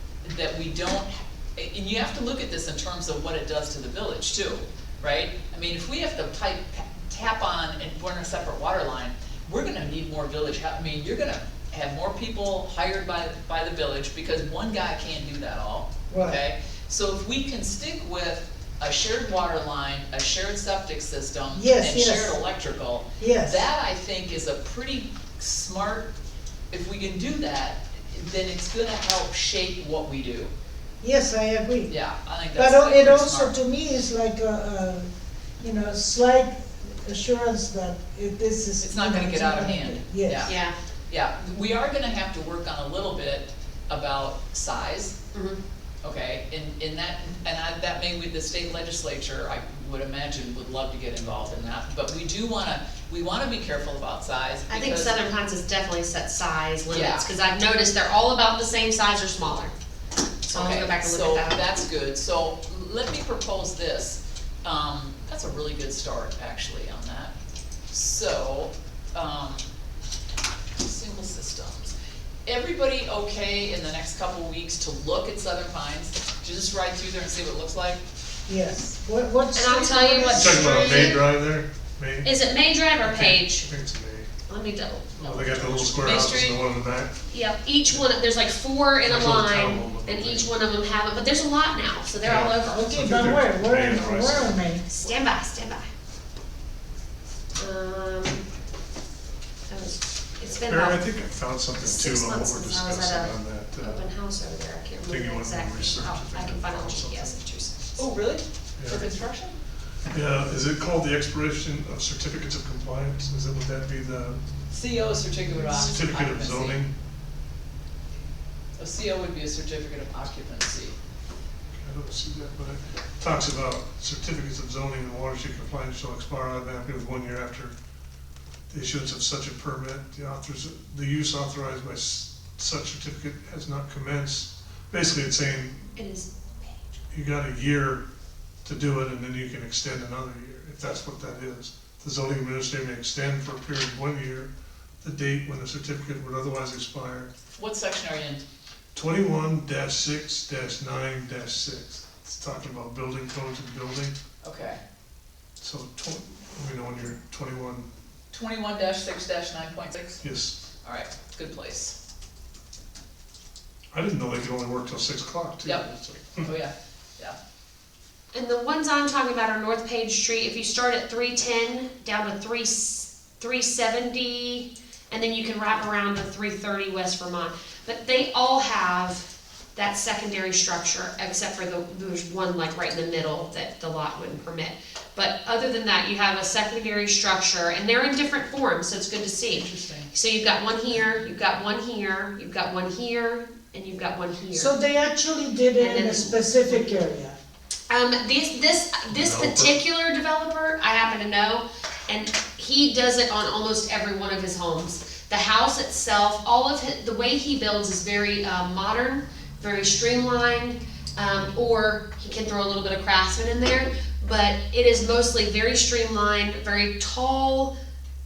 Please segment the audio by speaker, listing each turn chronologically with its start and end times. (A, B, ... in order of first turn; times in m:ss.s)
0:00.2-0:26.1 A
0:16.1-0:16.4 B
0:21.5-0:22.4 B
0:23.2-0:23.7 B
0:26.7-0:30.5 A
0:31.0-0:31.9 B
0:31.9-0:33.6 A
0:32.6-0:35.1 B
0:35.6-0:40.5 B
0:38.8-0:40.6 A
0:40.5-0:40.8 C
0:41.1-0:45.2 A
0:45.3-0:45.6 C
0:46.0-0:55.2 A
0:54.7-0:59.7 C
0:56.9-0:57.3 A
1:00.5-1:01.6 C
1:00.5-1:07.3 A
1:07.9-1:09.7 A
1:10.8-1:12.0 A
1:12.5-1:18.0 A
1:18.5-1:21.2 B
1:19.5-1:21.2 C
1:20.3-1:22.3 D
1:22.2-1:23.7 C
1:23.0-1:24.3 D
1:24.5-1:25.8 C
1:25.2-1:27.2 D
1:25.2-1:26.6 A
1:27.3-1:32.8 C
1:29.0-1:30.5 D
1:32.2-1:34.6 D
1:32.7-1:34.8 B
1:34.9-1:35.9 C
1:37.6-1:38.5 C
1:39.7-1:41.1 C
1:40.5-1:44.1 D
1:41.8-1:48.0 C
1:45.1-1:47.4 D
1:48.0-1:49.6 A
1:48.8-1:49.0 D
1:50.1-1:54.4 D
1:54.7-1:56.8 A
1:55.5-1:55.9 C
1:55.7-1:56.9 D
1:58.8-2:01.0 A
2:01.7-2:07.8 D
2:08.7-2:15.8 D
2:16.0-2:17.0 C
2:17.1-2:18.0 D
2:18.6-2:24.5 D
2:25.0-2:27.3 D
2:27.6-2:28.4 A
2:29.0-2:34.2 D
2:34.4-2:34.8 A
2:35.6-2:37.9 D
2:38.3-2:40.2 A
2:40.2-2:40.6 D
2:40.8-2:42.0 A
2:43.9-2:46.5 D
2:46.4-2:47.4 A
2:48.3-3:14.7 C
3:09.5-3:10.1 A
3:14.5-3:17.4 B
3:15.8-3:16.5 C
3:17.9-3:37.7 C
3:19.1-3:19.7 D